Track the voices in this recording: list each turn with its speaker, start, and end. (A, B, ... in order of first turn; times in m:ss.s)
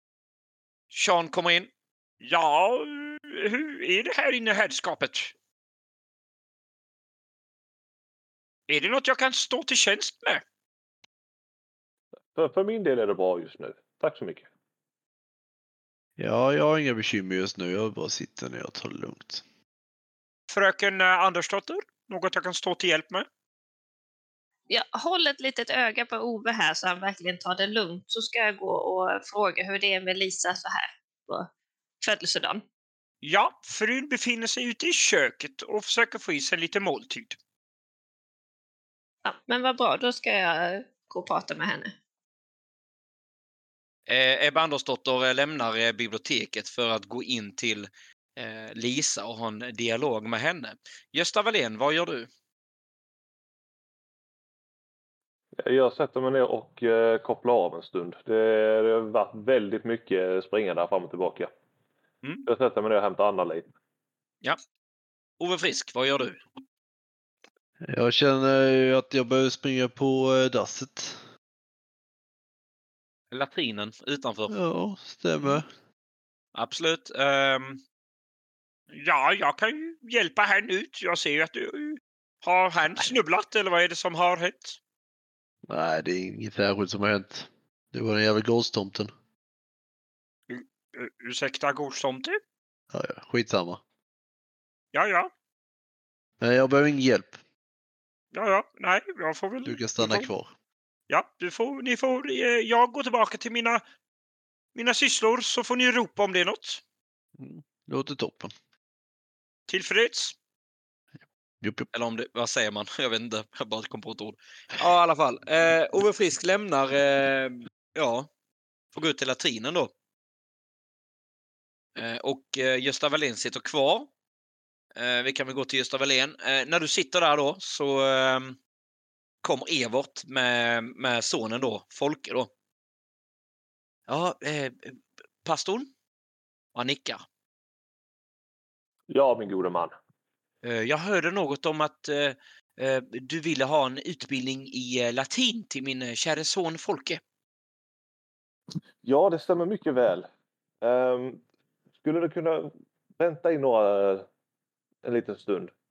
0:00.9-0:01.7 A
0:02.2-0:05.3 A
0:08.7-0:10.4 A
0:12.4-0:14.5 B
0:16.2-0:19.4 C
0:20.5-0:23.3 A
0:24.7-0:31.5 D
0:32.0-0:32.6 D
0:33.2-0:37.4 A
0:39.2-0:41.9 D
0:44.1-0:52.3 A
0:55.6-1:01.5 B
1:02.5-1:03.7 B
1:05.4-1:06.4 A
1:07.8-1:11.2 C
1:13.3-1:14.5 A
1:14.5-1:15.7 C
1:16.5-1:17.8 A
1:18.9-1:24.8 A
1:25.7-1:29.1 C
1:30.5-1:32.4 A
1:32.9-1:33.8 C
1:34.9-1:35.3 A
1:36.4-1:37.4 C
1:38.3-1:40.3 A
1:39.6-1:40.5 C
1:41.1-1:43.8 A
1:44.8-1:46.8 A
1:47.4-1:48.5 C
1:49.7-1:50.4 A
1:51.6-1:51.9 C
1:51.9-1:58.3 A
1:58.9-1:59.9 A
2:02.0-2:04.1 A
2:05.0-2:08.6 A
2:09.4-2:12.5 A
2:14.1-2:15.9 A
2:16.8-2:17.2 A
2:19.1-2:19.9 B
2:20.6-2:27.2 A
2:29.0-2:30.3 B
2:30.8-2:31.4 B
2:32.0-2:34.3 B
2:35.0-2:35.7 B